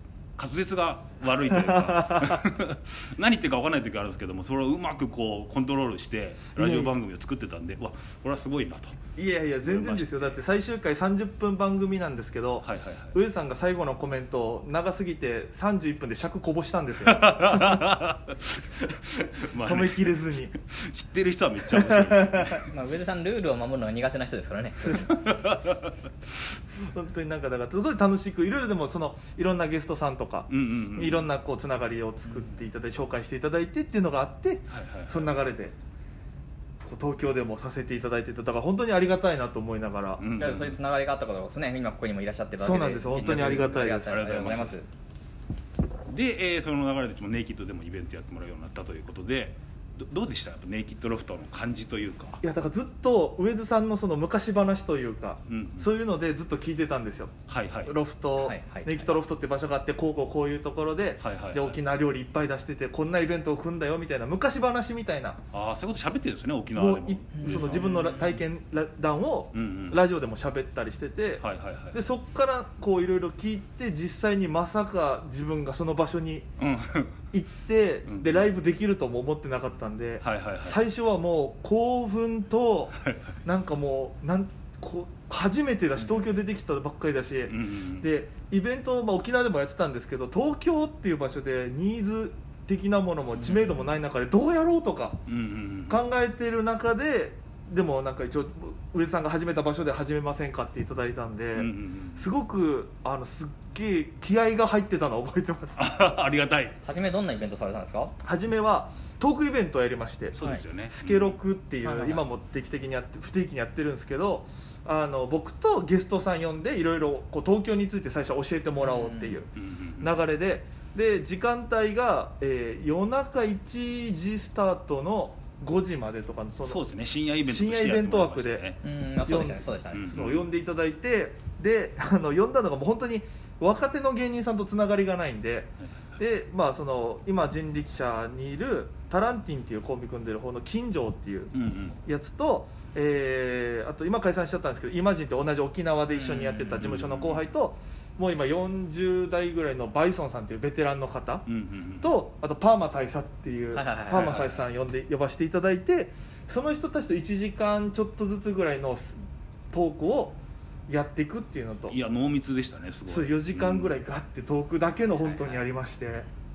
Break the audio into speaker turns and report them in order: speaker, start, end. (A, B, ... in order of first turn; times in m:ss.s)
0:00.4-0:09.0 A
0:01.6-0:02.0 B
0:06.6-0:07.0 B
0:09.2-0:17.9 B
0:09.7-0:10.4 A
0:12.6-0:13.2 A
0:17.0-0:22.7 A
0:19.6-0:20.5 B
0:21.7-0:22.6 B
0:22.6-0:25.2 C
0:25.2-0:25.9 A
0:26.8-0:35.7 B
0:30.5-0:31.3 A
0:34.7-0:35.3 A
0:36.8-0:40.3 B
0:40.2-0:40.8 A
0:40.4-0:44.9 C
0:42.6-0:44.2 B
0:44.1-0:44.7 A
0:46.1-0:52.4 A
0:52.4-0:57.3 B
0:55.5-0:55.9 A
0:57.5-0:57.9 A
0:57.8-1:05.4 B
0:58.4-0:59.2 C
1:01.2-1:01.8 A
1:05.5-1:08.2 A
1:06.8-1:16.5 B
1:07.4-1:08.4 C
1:09.5-1:10.0 A
1:11.4-1:12.0 A
1:16.6-1:17.2 A
1:17.3-1:35.2 B
1:18.1-1:18.5 A
1:20.2-1:20.8 A
1:27.5-1:28.1 A
1:33.4-1:33.7 A
1:35.3-1:36.0 A
1:35.9-1:45.9 B
1:41.6-1:42.3 A
1:45.8-1:46.8 A
1:46.8-1:48.1 C
1:48.2-1:59.5 B
1:50.3-1:51.4 A
1:51.8-1:52.2 C
1:58.8-1:59.4 C
1:59.6-2:00.2 A
2:00.0-2:06.8 B
2:06.6-2:08.8 A
2:07.4-2:08.6 B
2:08.8-2:10.0 C
2:09.3-2:21.5 B
2:09.9-2:10.5 A
2:21.5-2:22.0 A
2:22.1-2:31.4 B
2:26.1-2:26.8 C
2:26.7-2:27.5 A
2:31.5-2:32.1 A
2:32.0-2:39.2 B
2:33.7-2:34.6 C
2:39.7-2:42.0 B
2:41.9-2:44.0 A
2:43.1-2:46.3 B
2:45.1-2:45.6 C